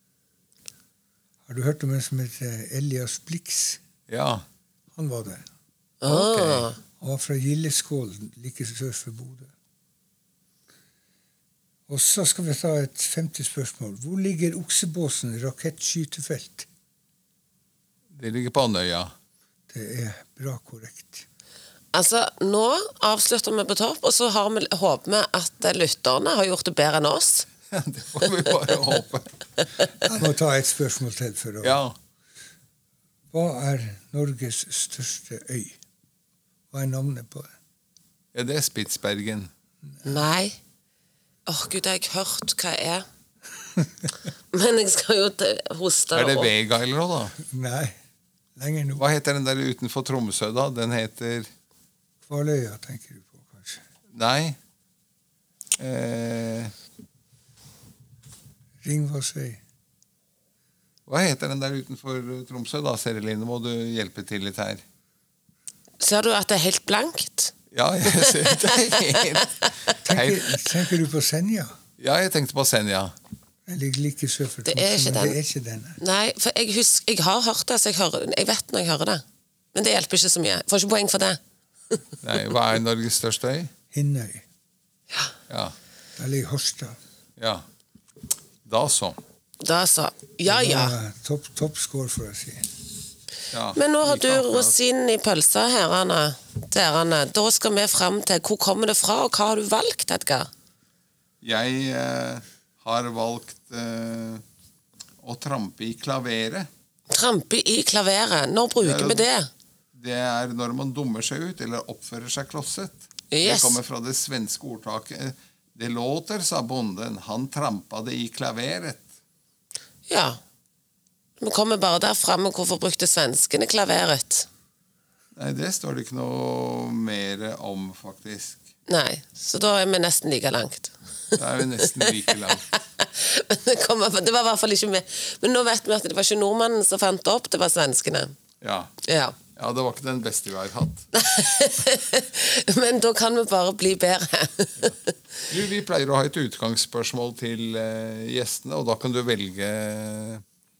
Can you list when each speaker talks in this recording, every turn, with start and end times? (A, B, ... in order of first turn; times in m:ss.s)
0:01.4-0:03.8 A
0:04.1-0:04.4 B
0:04.9-0:05.4 A
0:06.0-0:06.8 C
0:06.0-0:06.7 B
0:07.0-0:09.5 A
0:11.9-0:16.7 A
0:18.1-0:19.1 B
0:19.7-0:21.3 A
0:21.9-0:27.5 C
0:27.7-0:29.3 B
0:30.0-0:31.8 A
0:31.6-0:31.9 B
0:33.3-0:35.8 A
0:36.7-0:37.5 A
0:38.3-0:39.5 B
0:39.8-0:40.2 A
0:40.0-0:40.6 C
0:41.4-0:43.0 C
0:44.5-0:46.5 C
0:46.1-0:47.4 B
0:47.4-0:48.0 A
0:48.6-0:49.0 A
0:49.0-0:51.5 B
0:52.2-0:53.8 A
0:54.1-0:54.6 B
0:55.8-0:56.7 B
0:58.8-0:59.6 A
1:01.1-1:04.8 B
1:06.0-1:07.5 C
1:07.7-1:10.6 B
1:08.1-1:09.1 C
1:10.0-1:11.8 A
1:12.0-1:13.2 B
1:13.6-1:16.0 A
1:14.6-1:15.4 C
1:16.0-1:21.4 C
1:22.2-1:23.7 B
1:23.9-1:24.4 A
1:25.5-1:25.7 B
1:26.2-1:27.0 A
1:27.4-1:27.6 B
1:28.6-1:29.2 B
1:29.6-1:30.9 C
1:30.4-1:32.7 A
1:33.5-1:34.8 B
1:33.7-1:40.5 C
1:41.4-1:44.4 B
1:45.2-1:46.7 B
1:47.1-1:49.5 C
1:48.8-1:49.2 B
1:49.9-1:59.1 B
1:53.3-1:53.8 C
2:00.1-2:00.4 C
2:01.4-2:04.5 C
2:05.4-2:08.6 B
2:08.9-2:18.3 C
2:11.3-2:12.6 B
2:18.6-2:18.9 B
2:19.0-2:19.4 C
2:19.5-2:21.1 B
2:21.1-2:24.9 C
2:25.5-2:30.4 B